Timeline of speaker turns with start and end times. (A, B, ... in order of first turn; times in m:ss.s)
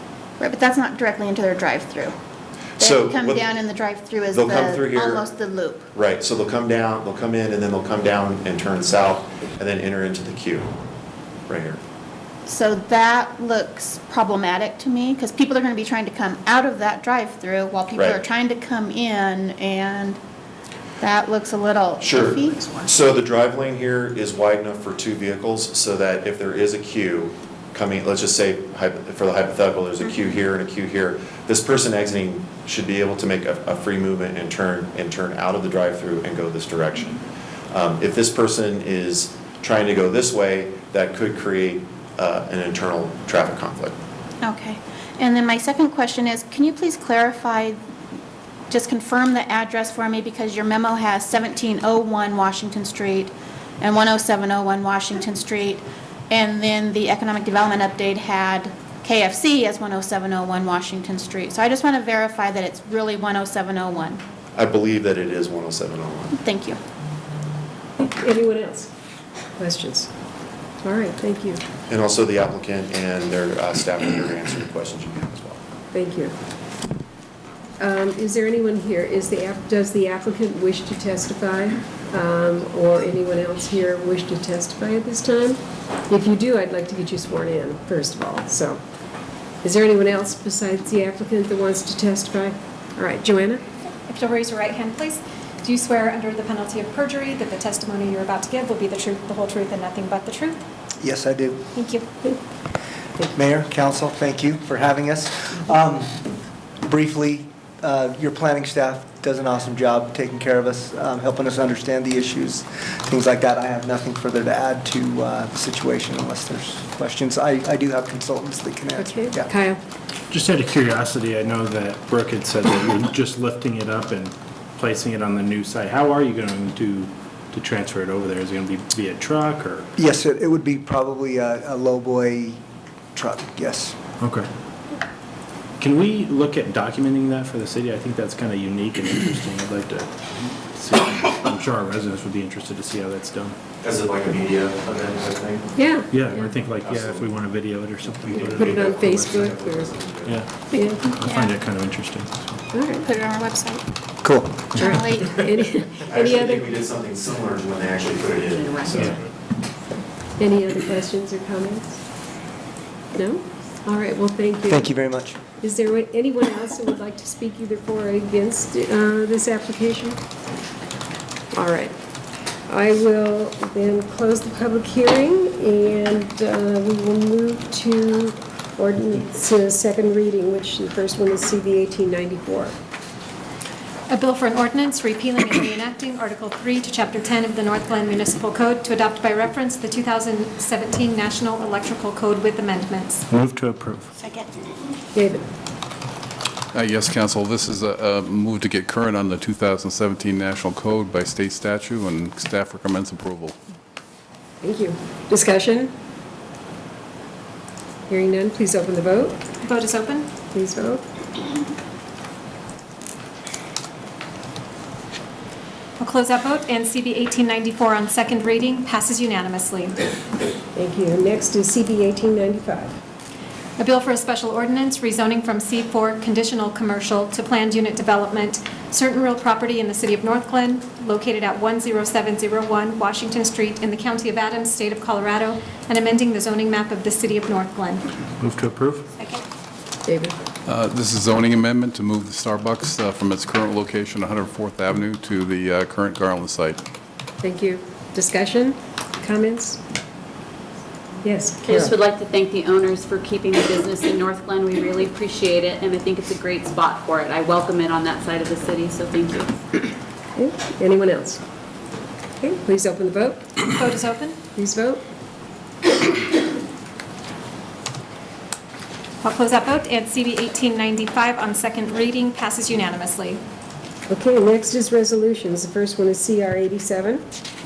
0:00.4-0:02.1 A
0:02.8-0:03.6 B
0:02.8-0:05.9 A
0:04.3-0:05.3 B
0:05.9-0:10.7 B
0:11.5-0:11.8 B
0:12.4-0:20.2 A
0:17.9-0:18.2 B
0:21.0-0:22.9 A
0:22.0-0:37.2 B
0:37.7-0:44.0 B
0:44.4-0:47.8 A
0:48.7-1:04.2 A
1:04.6-1:06.4 B
1:06.4-1:06.8 A
1:08.2-1:08.9 C
1:09.6-1:10.1 C
1:10.8-1:11.6 C
1:11.9-1:15.6 B
1:15.9-1:16.3 C
1:17.8-1:28.8 C
1:29.6-1:33.6 C
1:34.1-1:40.6 D
1:41.0-1:41.6 E
1:41.7-1:42.0 D
1:43.3-1:46.3 E
1:46.8-1:59.5 E
1:59.0-1:59.8 C
2:00.3-2:09.9 F
2:10.0-2:12.6 E
2:13.1-2:14.0 E
2:14.2-2:14.5 F
2:15.8-2:23.6 F
2:23.8-2:25.8 B
2:25.8-2:26.4 C
2:26.1-2:29.5 F
2:26.6-2:27.4 B
2:28.1-2:30.4 B
2:28.3-2:29.9 C
2:30.2-2:32.6 F
2:30.7-2:31.5 A
2:30.7-2:31.0 C
2:32.7-2:33.0 C
2:32.8-2:33.8 A
2:34.2-2:34.7 E
2:34.7-2:35.2 F
2:34.7-2:35.4 A
2:34.8-2:36.7 C
2:36.0-2:39.2 B
2:38.5-2:39.1 G
2:40.4-2:42.0 C
2:43.1-2:44.9 C
2:44.7-2:45.4 E
2:45.6-2:50.2 C
2:51.5-2:51.9 C
2:52.7-3:02.7 C
3:04.1-3:13.2 D
3:13.3-3:14.1 F
3:15.1-3:15.4 C
3:16.7-3:23.6 H
3:24.6-3:25.9 C
3:28.1-3:29.4 C
3:29.6-3:30.3 D
3:30.5-3:31.0 C
3:36.0-3:40.0 D
3:40.7-3:42.9 C
3:43.8-3:58.1 D
3:58.4-3:59.0 F
3:59.2-3:59.4 D
4:00.0-4:00.3 C
4:00.6-4:06.8 H
4:07.4-4:09.8 C
4:11.2-4:11.9 C
4:11.6-4:19.5 G
4:20.4-4:21.4 C
4:22.4-4:23.5 C
4:23.6-4:24.4 D
4:24.6-4:25.0 C
4:29.2-4:33.4 D
4:34.1-4:37.2 C